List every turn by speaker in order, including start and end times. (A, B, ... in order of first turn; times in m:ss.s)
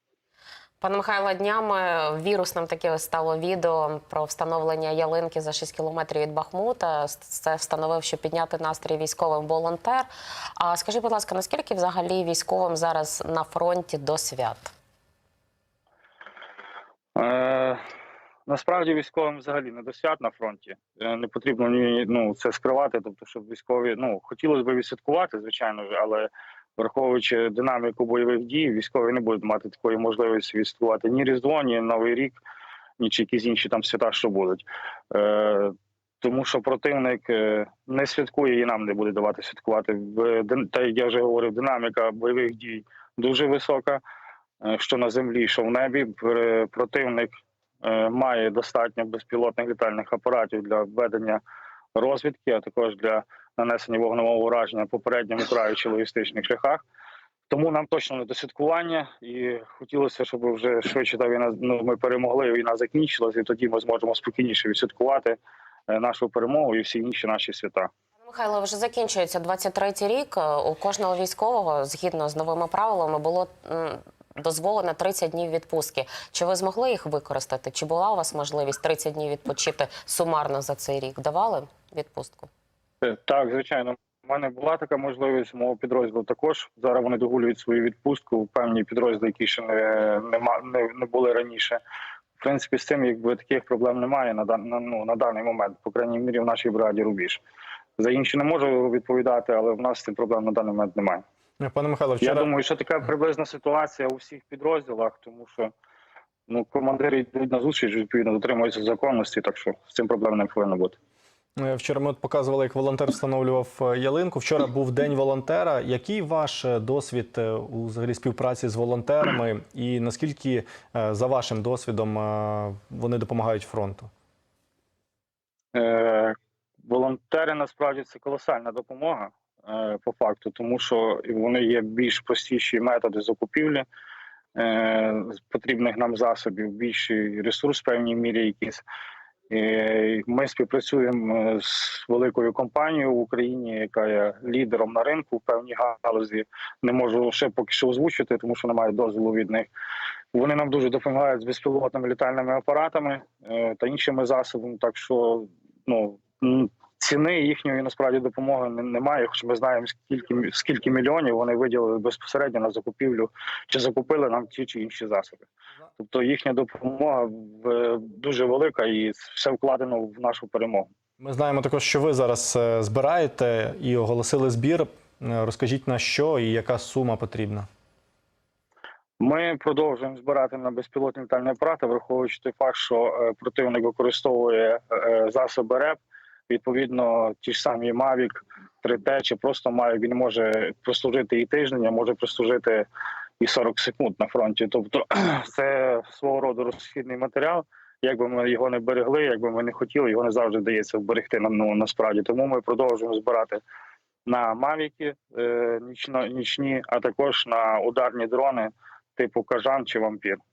0:00.8-0:14.7 A
0:17.2-0:17.8 B
0:18.5-0:32.4 B
0:33.0-0:44.0 B
0:44.6-0:47.3 B
0:47.8-0:51.4 B
0:51.9-0:56.8 B
0:57.5-1:05.4 B
1:05.9-1:07.9 B
1:08.2-1:22.5 A
1:23.0-1:31.8 B
1:32.4-1:37.4 B
1:38.0-1:41.2 B
1:41.6-1:42.5 C
1:42.2-1:45.7 B
1:46.5-1:51.0 B
1:51.6-2:04.1 C
2:05.7-2:13.9 B
2:14.6-2:18.8 B
2:19.5-2:29.7 B
2:30.3-2:45.5 B
2:46.0-2:50.9 B
2:51.2-2:57.7 C
2:59.2-3:12.9 B
3:13.4-3:23.6 B
3:24.3-3:30.4 B